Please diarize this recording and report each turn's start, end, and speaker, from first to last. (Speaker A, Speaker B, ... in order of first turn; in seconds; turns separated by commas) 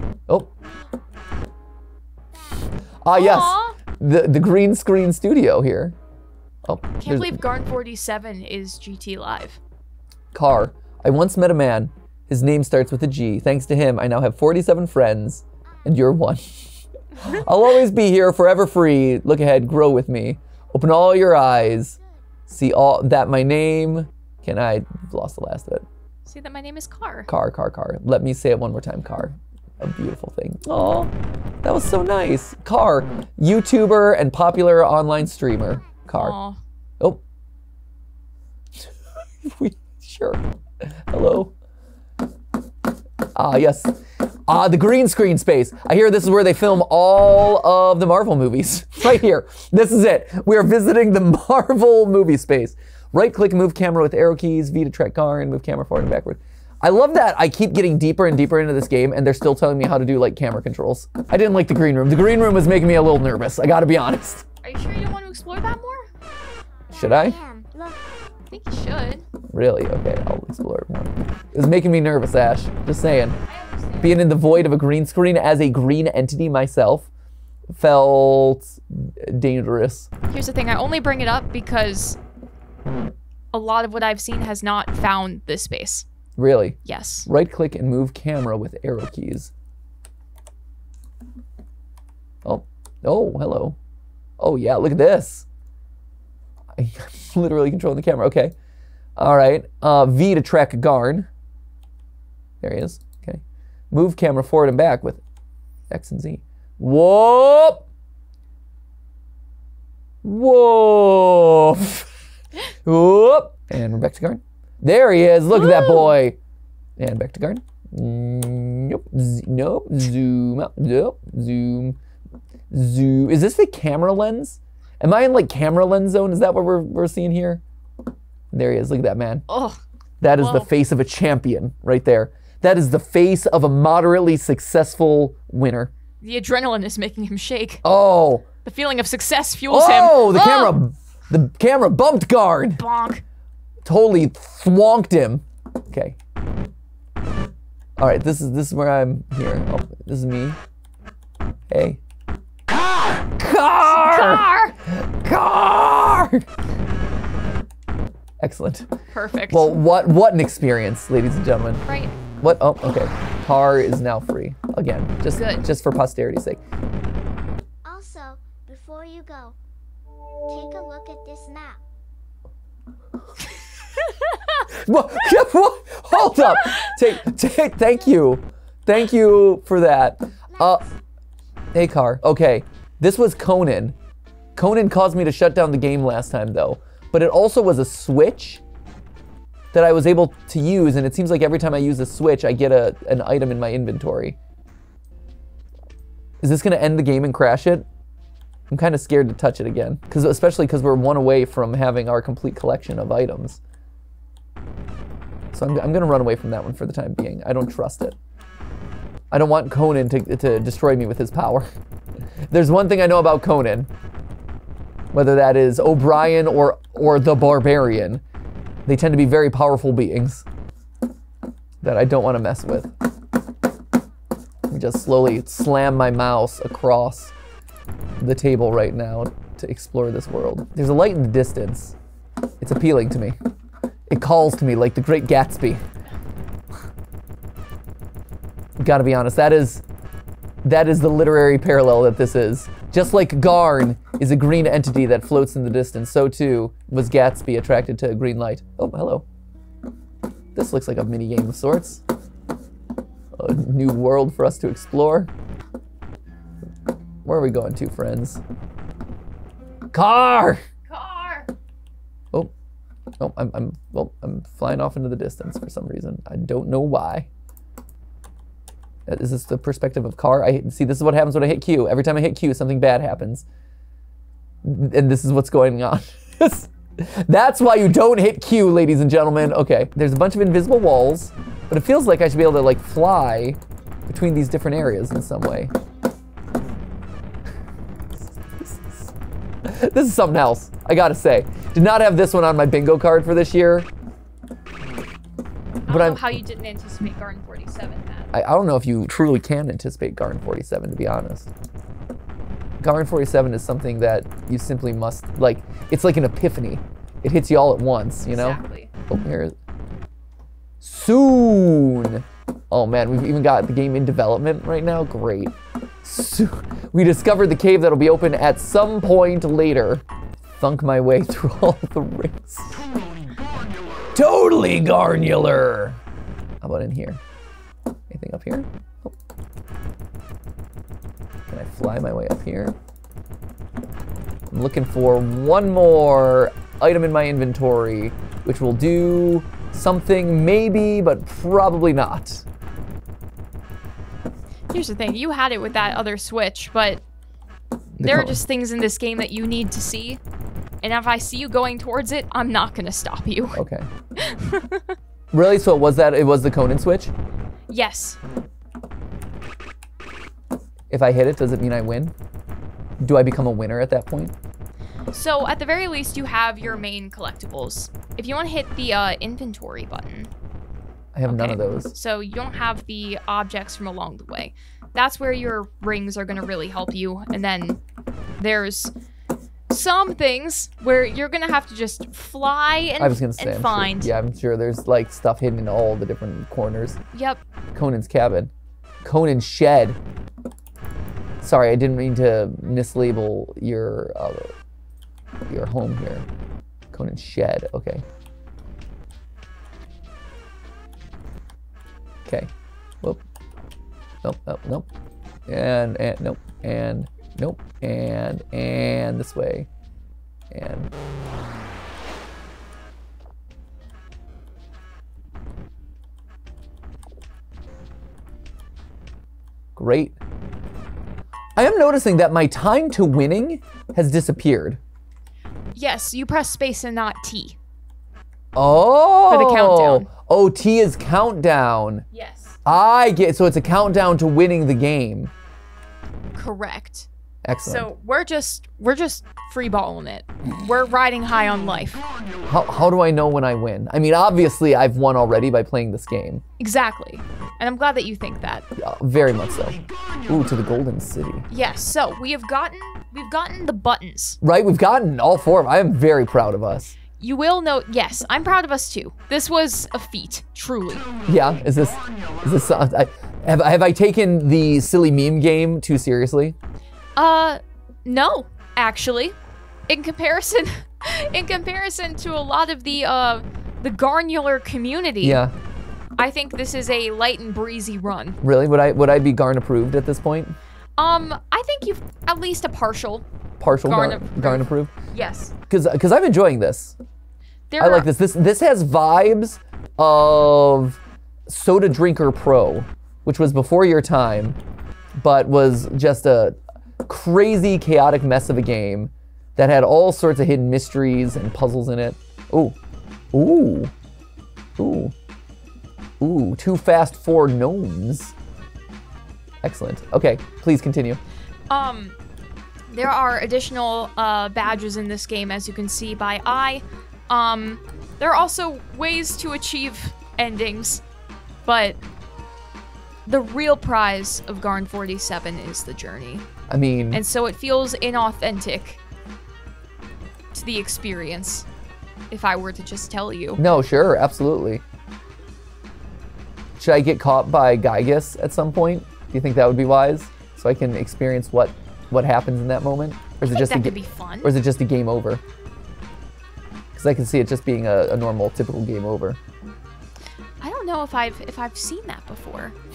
Speaker A: 3.0-6.0, Speaker B: 3.1-3.8, Speaker A: 6.6-7.4, Speaker B: 7.0-9.6, Speaker A: 10.3-21.9, Speaker A: 22.5-25.9, Speaker B: 26.2-27.3, Speaker A: 27.3-31.1, Speaker A: 31.6-36.4, Speaker B: 36.1-36.6, Speaker A: 39.4-41.5, Speaker A: 43.4-64.4, Speaker B: 64.6-66.1, Speaker C: 66.9-68.0, Speaker A: 66.9-67.4, Speaker B: 68.5-69.2, Speaker A: 69.5-73.4, Speaker B: 73.4-74.2, Speaker A: 74.0-77.1, Speaker A: 77.7-80.1, Speaker B: 80.3-82.2, Speaker B: 83.5-86.1, Speaker A: 86.4-89.5, Speaker B: 86.8-87.3, Speaker A: 92.4-93.8, Speaker A: 94.4-95.5, Speaker A: 96.7-98.5, Speaker A: 99.2-101.3, Speaker A: 102.6-105.2, Speaker A: 105.9-107.8, Speaker A: 110.2-112.1, Speaker A: 112.8-116.4, Speaker B: 115.5-116.1, Speaker A: 117.0-122.0, Speaker A: 122.7-127.6, Speaker A: 128.5-129.4, Speaker B: 129.5-129.8, Speaker A: 130.2-135.9, Speaker B: 130.4-130.7, Speaker B: 136.2-137.8, Speaker A: 137.8-138.5, Speaker B: 138.6-140.8, Speaker A: 139.7-142.8, Speaker B: 142.8-143.2, Speaker A: 143.8-146.2, Speaker A: 148.0-150.6, Speaker A: 151.7-152.0, Speaker A: 153.4-156.5, Speaker B: 153.9-154.7, Speaker A: 158.4-158.9, Speaker B: 159.1-159.8, Speaker A: 159.5-166.6, Speaker B: 161.9-162.1, Speaker B: 165.3-165.7, Speaker C: 167.8-169.6, Speaker C: 170.5-171.8, Speaker B: 174.3-174.6, Speaker A: 174.7-180.8, Speaker B: 176.6-176.9, Speaker A: 181.7-184.0, Speaker A: 184.6-188.6, Speaker A: 189.7-194.4, Speaker A: 196.4-197.8, Speaker A: 198.7-203.6, Speaker A: 205.5-208.2, Speaker A: 209.3-211.7, Speaker A: 212.5-213.9, Speaker A: 215.1-218.2, Speaker A: 218.8-220.4, Speaker A: 221.8-222.9, Speaker A: 224.7-227.3, Speaker A: 228.2-231.9, Speaker A: 232.6-233.4, Speaker A: 234.1-235.8, Speaker A: 238.8-239.8, Speaker A: 240.6-249.2, Speaker A: 250.5-252.0, Speaker A: 253.3-255.3, Speaker A: 257.2-258.4, Speaker A: 259.9-260.6, Speaker B: 260.9-261.5, Speaker A: 263.2-267.3, Speaker A: 269.1-273.5, Speaker A: 274.6-285.7, Speaker A: 288.2-289.1, Speaker A: 289.6-293.9, Speaker A: 295.9-296.4, Speaker B: 295.9-298.3, Speaker A: 298.3-301.5, Speaker A: 302.8-309.5, Speaker B: 308.3-308.9, Speaker A: 310.8-320.0, Speaker A: 320.6-322.8, Speaker A: 324.1-326.0, Speaker A: 326.6-327.2, Speaker A: 328.1-329.1, Speaker A: 331.5-332.8, Speaker A: 334.5-342.4, Speaker B: 344.7-347.0, Speaker A: 348.0-348.4, Speaker B: 348.0-350.2, Speaker B: 350.8-353.6, Speaker A: 353.5-353.9, Speaker B: 354.2-354.9, Speaker A: 355.3-357.1, Speaker B: 357.7-358.2, Speaker A: 360.9-362.1, Speaker A: 363.0-364.3, Speaker B: 365.1-370.3, Speaker A: 371.1-371.9, Speaker B: 371.3-377.8, Speaker B: 378.4-378.9, Speaker B: 379.7-384.1, Speaker A: 383.0-387.0, Speaker B: 387.1-387.4, Speaker A: 387.7-388.5, Speaker A: 389.0-390.0, Speaker A: 391.4-394.5, Speaker A: 395.5-396.2, Speaker A: 396.9-398.0, Speaker A: 402.2-403.2, Speaker A: 404.2-404.9, Speaker A: 405.5-409.7, Speaker A: 410.5-410.9, Speaker A: 419.8-420.1, Speaker A: 421.6-424.8, Speaker B: 425.8-427.6, Speaker A: 428.5-432.0, Speaker B: 429.3-430.1, Speaker B: 432.1-432.6, Speaker A: 432.6-435.3, Speaker B: 436.4-437.1, Speaker A: 437.4-437.9, Speaker B: 437.6-442.0, Speaker A: 442.5-446.4, Speaker B: 446.6-448.6, Speaker A: 448.8-451.5, Speaker B: 451.5-454.4, Speaker A: 454.4-457.0, Speaker B: 457.1-461.1, Speaker A: 461.3-466.6, Speaker B: 467.1-469.4, Speaker B: 469.9-475.4, Speaker A: 475.2-475.5, Speaker B: 476.2-478.4, Speaker A: 478.4-480.6, Speaker B: 481.0-483.2, Speaker A: 483.6-484.9, Speaker B: 483.8-485.5, Speaker A: 485.7-487.0, Speaker B: 487.7-488.1, Speaker A: 487.8-494.6, Speaker A: 495.2-502.8, Speaker A: 503.3-503.9, Speaker A: 504.8-505.1, Speaker A: 506.2-508.3, Speaker A: 509.6-511.2, Speaker B: 511.7-512.1, Speaker B: 512.9-521.0, Speaker B: 521.6-522.0, Speaker B: 523.2-526.5, Speaker A: 526.7-527.2, Speaker B: 527.1-529.0, Speaker B: 530.5-531.6, Speaker B: 532.3-533.6, Speaker A: 533.6-534.8, Speaker A: 536.8-545.4, Speaker B: 543.4-544.6, Speaker A: 546.9-549.4, Speaker B: 550.6-552.8